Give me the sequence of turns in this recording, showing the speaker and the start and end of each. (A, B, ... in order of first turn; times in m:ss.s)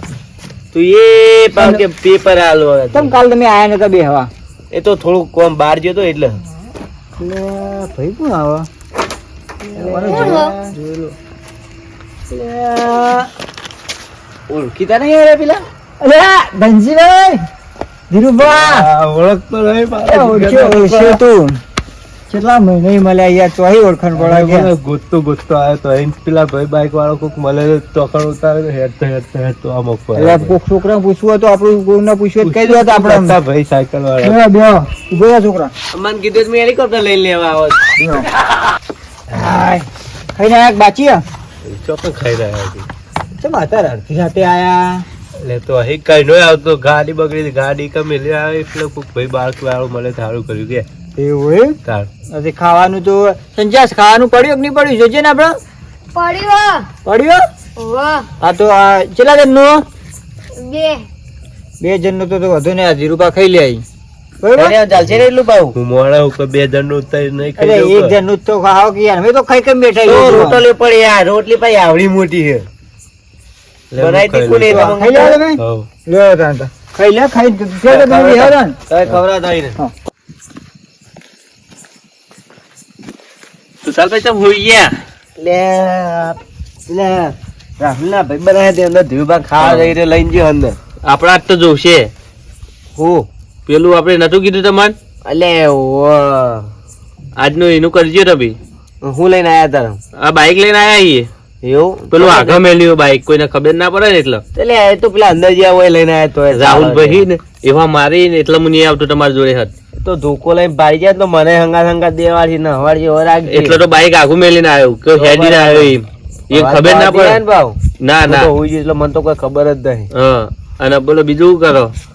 0:00.7-0:03.1 A
0:01.6-0:01.8 B
0:02.9-0:04.3 B
0:04.7-0:06.4 A
0:07.2-0:08.7 B
0:09.7-0:10.7 A
0:09.7-0:11.1 B
0:10.1-0:10.5 C
0:12.3-0:13.3 B
0:14.5-0:15.6 A
0:16.0-0:17.4 B
0:18.1-0:18.9 B
0:18.4-0:21.2 D
0:20.0-0:21.6 B
0:22.3-0:24.7 B
0:24.2-0:30.5 D
0:30.2-0:33.4 B
0:32.4-0:34.3 D
0:34.2-0:35.7 B
0:35.9-0:37.8 A
0:38.0-0:38.2 B
0:39.4-0:39.8 B
0:40.4-0:41.2 B
0:41.6-0:42.9 D
0:43.4-0:45.0 B
0:45.4-0:50.8 D
0:51.2-0:51.8 B
0:52.3-0:55.5 B
0:56.1-0:56.8 C
0:57.0-0:57.4 B
0:57.8-0:58.2 C
0:58.4-0:59.8 B
1:00.6-1:01.0 C
1:01.8-1:03.8 B
1:04.4-1:04.8 B
1:04.6-1:05.8 A
1:05.0-1:05.2 D
1:05.7-1:08.2 D
1:07.6-1:10.6 B
1:10.0-1:12.6 A
1:13.9-1:15.0 D
1:14.0-1:15.4 A
1:14.7-1:18.8 B
1:15.5-1:15.9 D
1:18.0-1:18.4 E
1:18.9-1:19.8 A
1:23.8-1:25.0 E
1:25.4-1:30.8 A
1:29.6-1:29.9 E
1:31.0-1:32.1 E
1:33.0-1:33.2 A
1:33.6-1:35.0 E
1:35.2-1:36.7 A
1:37.4-1:38.6 E
1:39.0-1:40.0 A
1:40.2-1:41.3 E
1:41.6-1:42.6 A
1:42.1-1:44.4 E
1:44.5-1:47.2 A
1:46.5-1:49.7 E
1:50.0-1:53.8 A
1:53.5-1:57.4 E
1:55.2-1:56.0 A
1:56.5-2:00.1 A
1:58.0-1:58.5 E
2:00.1-2:01.9 E